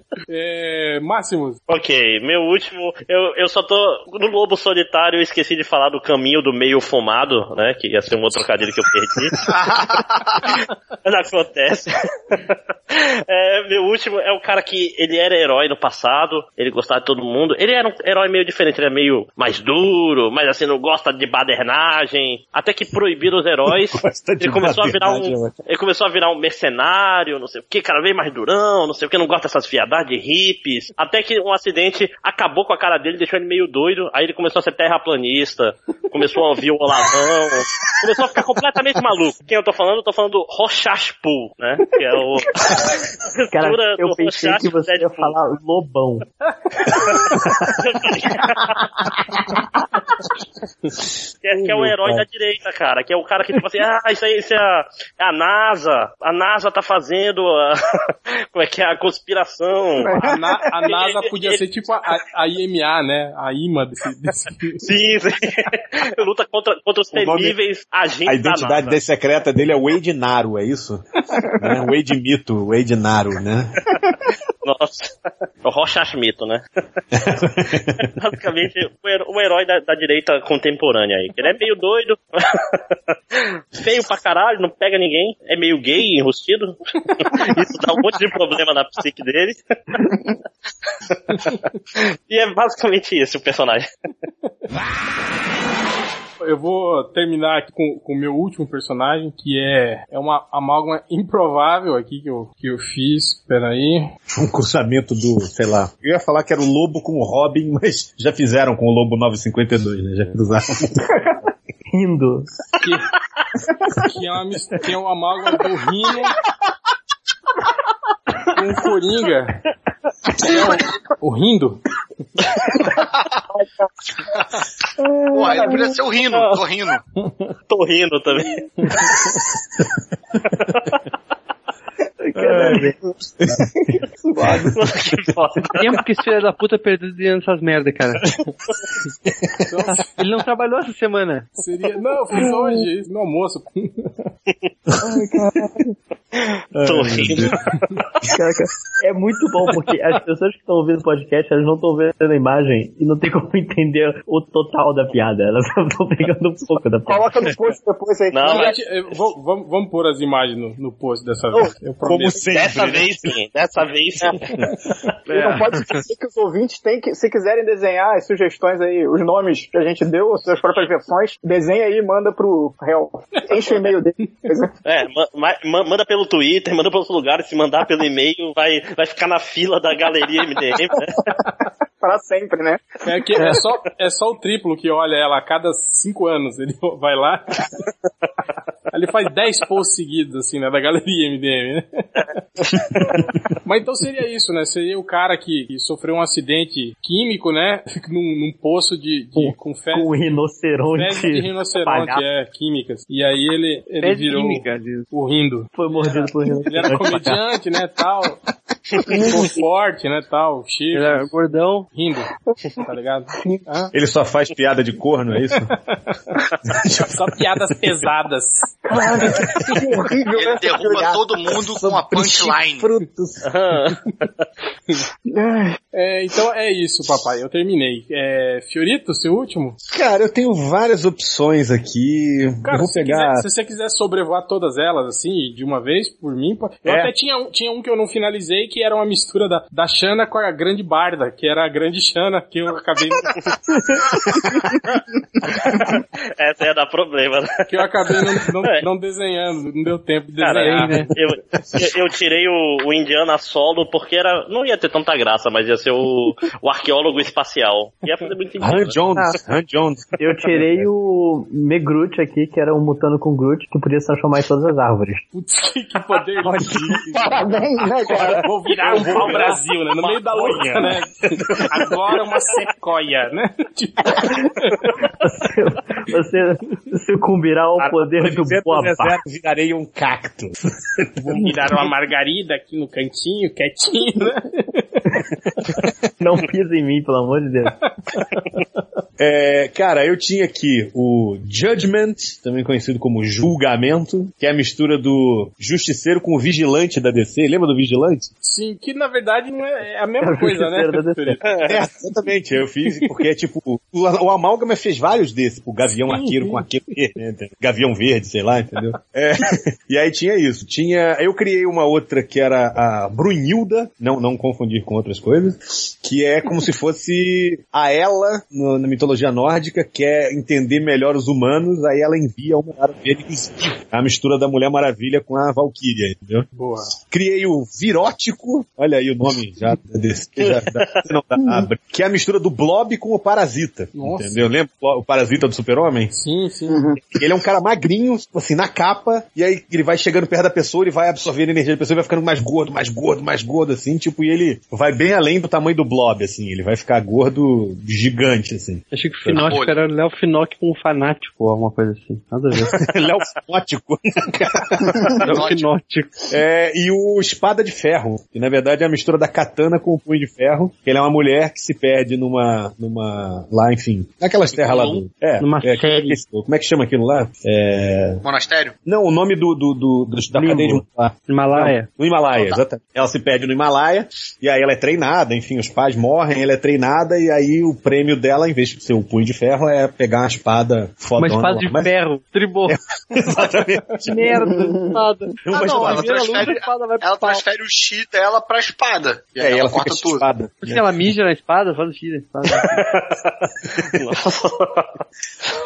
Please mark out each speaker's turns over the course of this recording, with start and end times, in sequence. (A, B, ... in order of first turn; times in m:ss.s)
0:00.3-0:01.6 A
0:01.7-0:09.5 B
0:09.4-0:10.5 C
0:10.4-0:45.3 B
0:23.7-0:25.5 D
0:43.5-0:46.2 E
0:47.8-0:48.9 B
0:51.4-1:00.1 B
0:51.6-0:52.2 D
1:00.0-1:00.4 F
1:00.1-1:04.8 A
1:00.8-1:01.6 B
1:04.8-1:09.0 B
1:07.1-1:07.6 D
1:08.2-1:11.0 D
1:11.6-1:13.7 D
1:14.6-1:16.6 B
1:17.1-1:18.1 D
1:18.1-1:22.8 B
1:23.3-1:30.0 B
1:31.9-1:33.8 B
1:36.4-1:44.1 A
1:44.3-1:51.1 D
1:51.9-1:52.5 E
1:52.8-1:53.1 A
1:54.0-1:56.3 A
1:58.5-1:59.6 A
2:00.4-2:01.8 A
2:02.9-2:03.4 C
2:05.0-2:05.9 F
2:05.3-2:07.0 C
2:07.7-2:08.6 B
2:12.2-2:12.9 E
2:12.4-2:12.9 D
2:13.4-2:14.8 D
2:14.2-2:14.7 F
2:14.7-2:15.9 B
2:15.8-2:18.2 G
2:19.7-2:20.1 A
2:20.2-2:21.5 G
2:21.6-2:24.3 A
2:25.2-2:25.7 F
2:26.7-2:27.6 D
2:26.8-2:27.5 B
2:28.2-2:37.2 E
2:37.0-2:38.8 F
2:38.3-2:38.8 B
2:38.5-2:42.4 A
2:42.0-2:43.3 D
2:42.5-2:44.4 B
2:45.3-2:54.7 F
2:54.8-3:01.2 B
3:02.0-3:02.9 F
3:03.0-3:07.6 A
3:08.9-3:12.4 A
3:13.6-3:20.2 A
3:19.4-3:22.2 E
3:20.9-3:28.4 A
3:24.0-3:25.1 G
3:25.7-3:27.4 E
3:29.1-3:31.3 A
3:30.9-3:31.9 G
3:31.9-3:32.3 A
3:32.8-3:33.9 A
3:33.9-3:35.7 D
3:35.6-3:36.1 A
3:36.7-3:37.1 D
3:37.0-3:38.7 A
3:38.8-3:40.8 F
3:39.3-3:39.8 D
3:40.3-3:42.8 C
3:40.7-3:43.5 D
3:43.4-3:44.0 B
3:45.2-3:45.8 F
3:45.9-3:49.8 A
3:49.8-3:53.4 D
3:52.6-4:03.3 A
3:56.8-3:57.1 D
4:06.4-4:07.5 B
4:07.7-4:11.1 A
4:08.1-4:08.8 B
4:10.4-4:19.0 B
4:10.6-4:11.1 G
4:18.6-4:20.8 D
4:20.2-4:25.2 E
4:25.3-4:34.9 A
4:27.2-4:28.5 F
4:28.8-4:30.9 B
4:35.2-4:39.2 E
4:37.8-4:41.5 D
4:41.2-4:45.0 A
4:46.2-4:47.7 E
4:49.2-4:58.3 D
4:58.4-5:01.6 A
5:00.2-5:01.4 E
5:01.6-5:26.5 D
5:06.0-5:06.6 A
5:26.5-5:26.9 A
5:27.0-5:36.1 D
5:30.4-5:30.8 B
5:33.9-5:34.4 A
5:36.1-5:36.9 A
5:36.7-5:37.0 F
5:37.1-5:49.6 D
5:48.9-5:52.8 G
5:49.3-5:49.8 C
5:52.6-5:55.4 D
5:55.2-5:56.2 G
5:55.2-5:55.7 C
5:56.3-6:08.2 D
6:05.4-6:06.2 G
6:08.2-6:08.7 C
6:08.8-6:21.9 D
6:10.4-6:11.9 G
6:21.2-6:22.8 G
6:22.7-6:24.4 D
6:24.1-6:27.4 G
6:24.4-6:25.0 F
6:25.4-6:26.5 D
6:25.6-6:30.3 C
6:29.4-6:30.9 D
6:30.6-6:32.8 G
6:33.9-6:34.9 B